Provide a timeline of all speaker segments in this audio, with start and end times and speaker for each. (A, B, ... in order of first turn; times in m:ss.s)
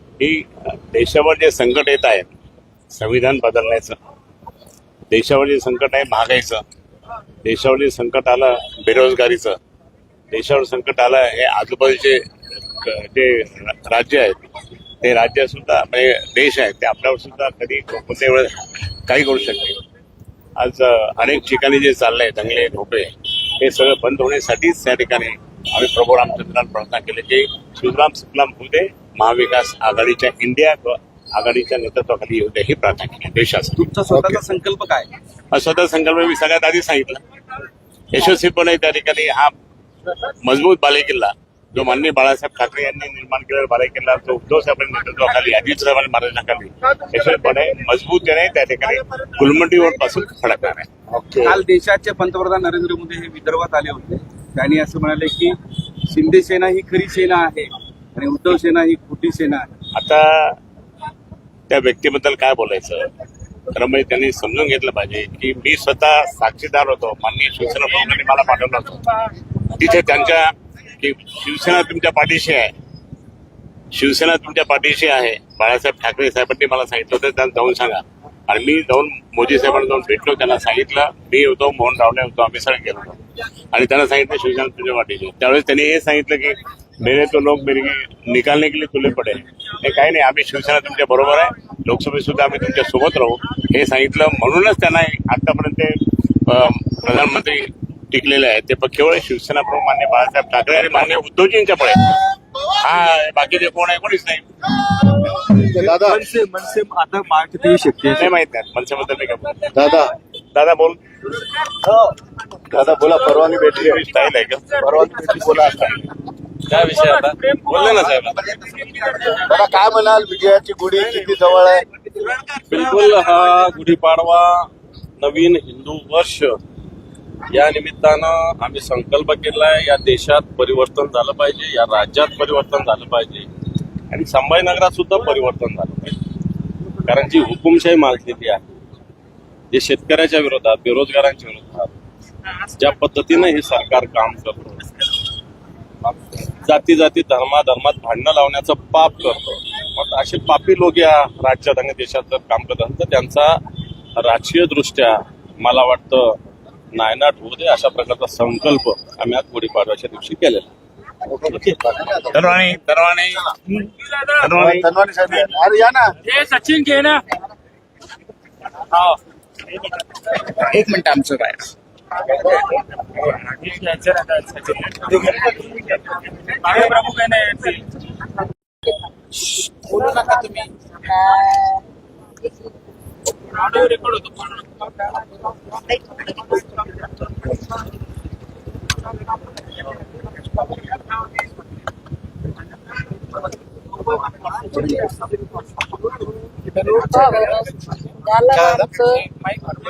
0:00.2-0:02.3 A
0:02.9-0:04.0 A
0:05.1-0:06.6 A
0:07.4-0:09.6 A
0:10.3-0:12.2 A
0:12.8-0:14.4 A
0:15.0-0:18.6 A
0:19.1-0:19.8 A
0:20.6-0:34.4 A
0:33.8-0:35.1 B
0:35.5-0:37.2 A
0:38.1-0:39.5 A
0:40.4-0:50.9 A
0:51.1-0:51.6 C
0:51.4-0:55.6 B
0:56.1-0:59.7 B
1:01.7-1:03.0 A
1:03.8-1:09.0 A
1:09.7-1:12.7 A
1:13.9-1:23.2 A
1:23.7-1:35.9 A
1:36.5-1:42.0 A
1:42.8-1:44.5 A
1:45.3-1:46.2 C
1:45.7-1:48.3 B
1:48.2-1:49.6 A
1:49.7-1:50.2 C
1:50.6-1:51.0 A
1:52.7-1:54.1 C
1:53.3-1:54.0 D
1:53.6-1:54.8 A
1:54.7-1:56.0 D
1:54.8-1:56.0 C
1:56.7-1:58.5 E
1:56.9-1:59.6 D
1:58.5-1:59.6 B
1:59.4-2:01.8 C
2:02.7-2:06.6 E
2:07.5-2:13.5 E
2:14.1-2:16.2 E
2:17.0-2:18.6 E
2:19.7-2:21.9 E
2:22.7-2:24.8 E
2:26.5-2:33.6 E
2:34.2-2:36.4 E
2:36.9-2:40.7 E
2:41.3-2:42.4 C
2:42.3-2:43.5 A
2:43.7-2:44.5 D
2:44.4-2:44.9 A
2:44.5-2:46.1 C
2:46.3-2:47.2 D
2:50.5-2:51.7 B
2:52.3-2:52.6 B
2:53.3-2:55.4 D
2:56.7-2:57.9 D
2:59.5-3:00.7 B
3:00.1-3:00.3 F
3:01.0-3:01.8 F
3:03.8-3:04.6 D
3:05.7-3:06.6 F
3:16.9-3:19.3 F